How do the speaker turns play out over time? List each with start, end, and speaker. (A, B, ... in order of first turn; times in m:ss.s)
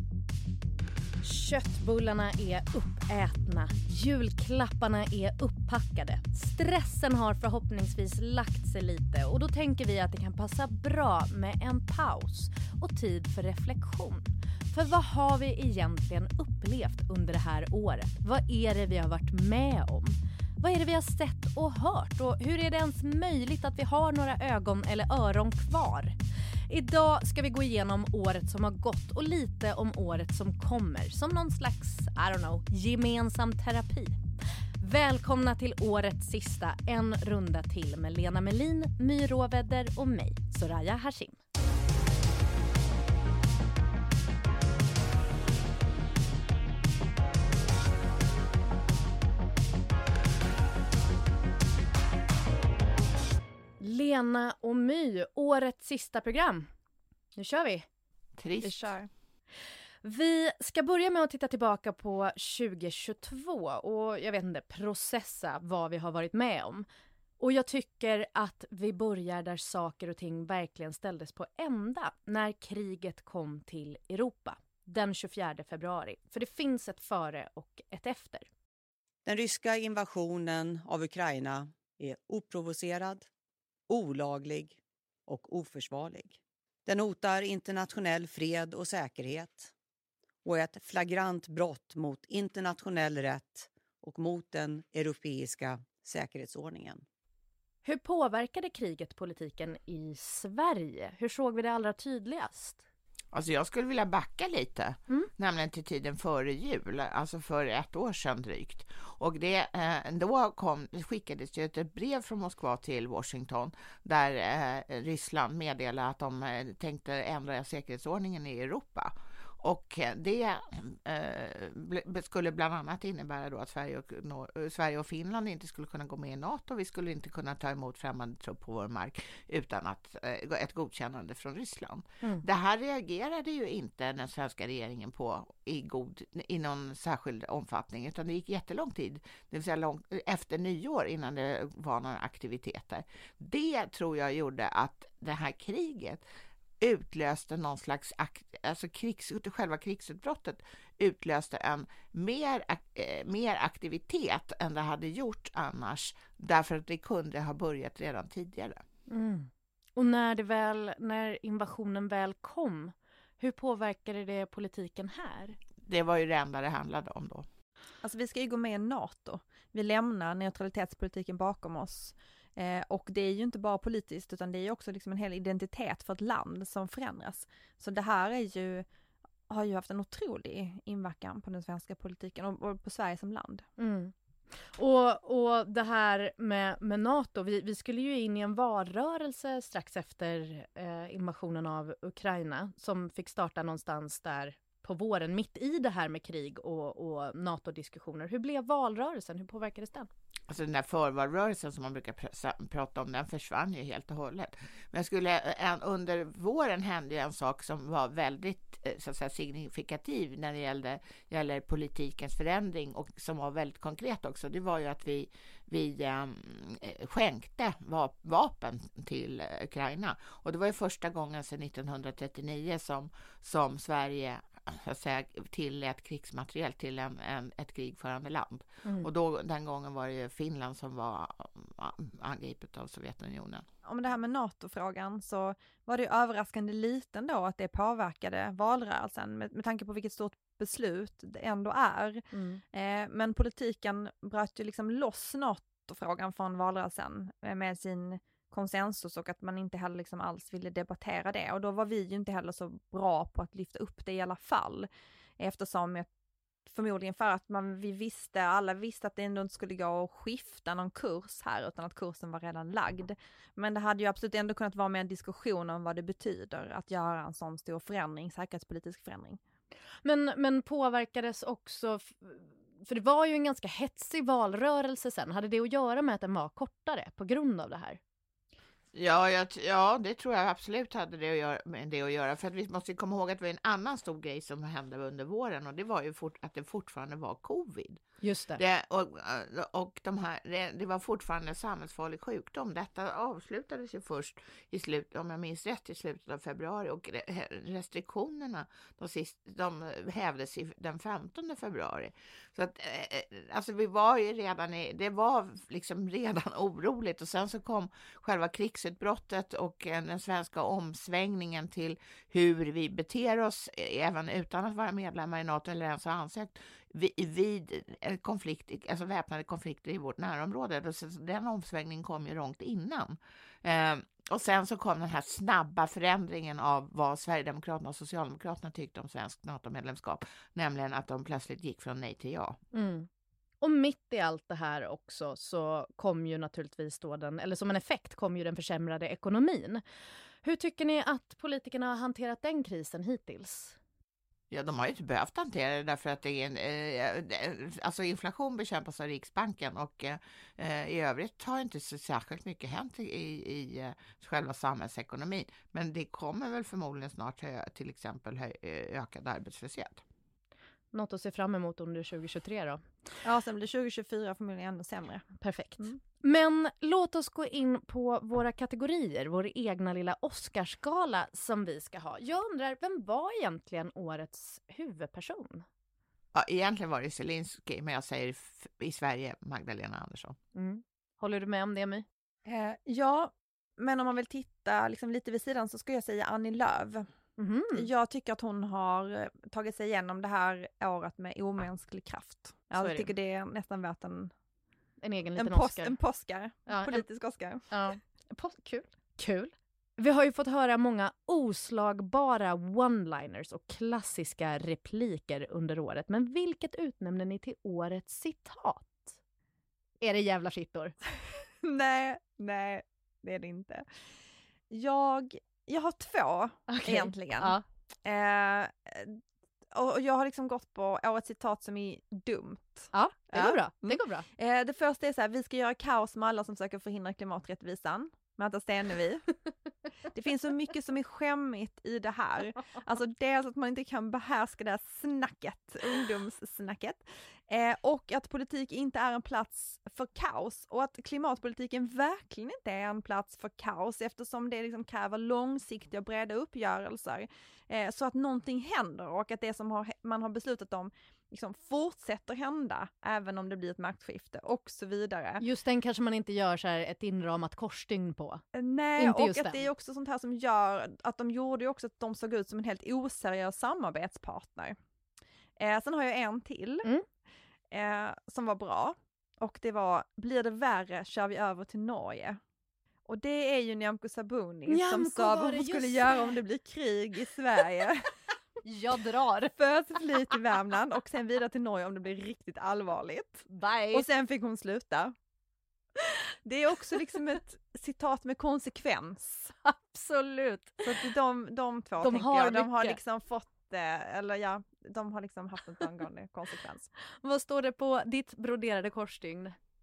0:01.2-0:26.2 A
0:26.7-0:34.2 A
0:34.8-0:41.4 A
0:53.8-0:56.7 A
0:57.4-0:57.9 A
0:58.4-0:58.9 B
0:58.6-0:59.1 C
1:00.0-1:06.9 A
1:07.4-1:18.5 A
1:19.2-1:23.3 D
1:23.9-1:29.7 D
1:30.4-1:37.0 D
1:37.8-1:42.8 A
1:43.3-2:26.2 B
2:26.8-2:38.8 B
2:39.1-2:45.6 A
2:45.8-2:47.5 B
2:48.0-2:58.9 C
2:59.5-3:03.6 C
3:03.8-3:20.1 A
3:20.5-3:53.7 B
3:48.8-3:49.1 A
3:53.8-4:16.1 C
4:02.3-4:02.6 A
4:16.7-4:29.4 C
4:30.0-4:38.0 A
4:38.9-4:48.0 B
4:48.2-4:48.6 A
4:48.6-5:32.6 B
5:32.7-5:33.1 A
5:33.6-5:39.8 A
5:40.4-5:43.8 A
5:44.5-6:00.0 B
6:00.9-6:02.8 A
6:03.2-6:05.3 C
6:05.4-6:15.6 A
6:16.3-6:20.4 B
6:20.6-6:22.0 A
6:22.4-6:27.1 C
6:27.4-6:27.9 A
6:27.7-6:34.3 C
6:32.8-6:33.1 B
6:35.0-6:36.0 A
6:35.4-6:37.7 C
6:36.7-6:37.1 A
6:37.7-6:49.2 A
6:50.0-6:51.0 A
6:51.6-6:53.9 C
6:54.7-7:09.2 C
6:56.7-6:57.6 A
7:02.9-7:04.3 A
7:10.1-7:35.4 C
7:35.4-7:38.4 A
7:38.5-7:44.8 C
7:39.0-7:39.7 A
7:45.6-7:46.9 C
7:47.7-7:52.4 C
7:53.1-7:58.1 C
7:54.7-7:56.4 A
7:58.6-7:59.5 A
7:59.6-8:05.2 C
8:03.5-8:04.1 A
8:06.4-8:09.5 C
8:09.6-8:11.0 A
8:10.8-8:16.9 C
8:12.0-8:13.0 A
8:17.2-8:19.6 A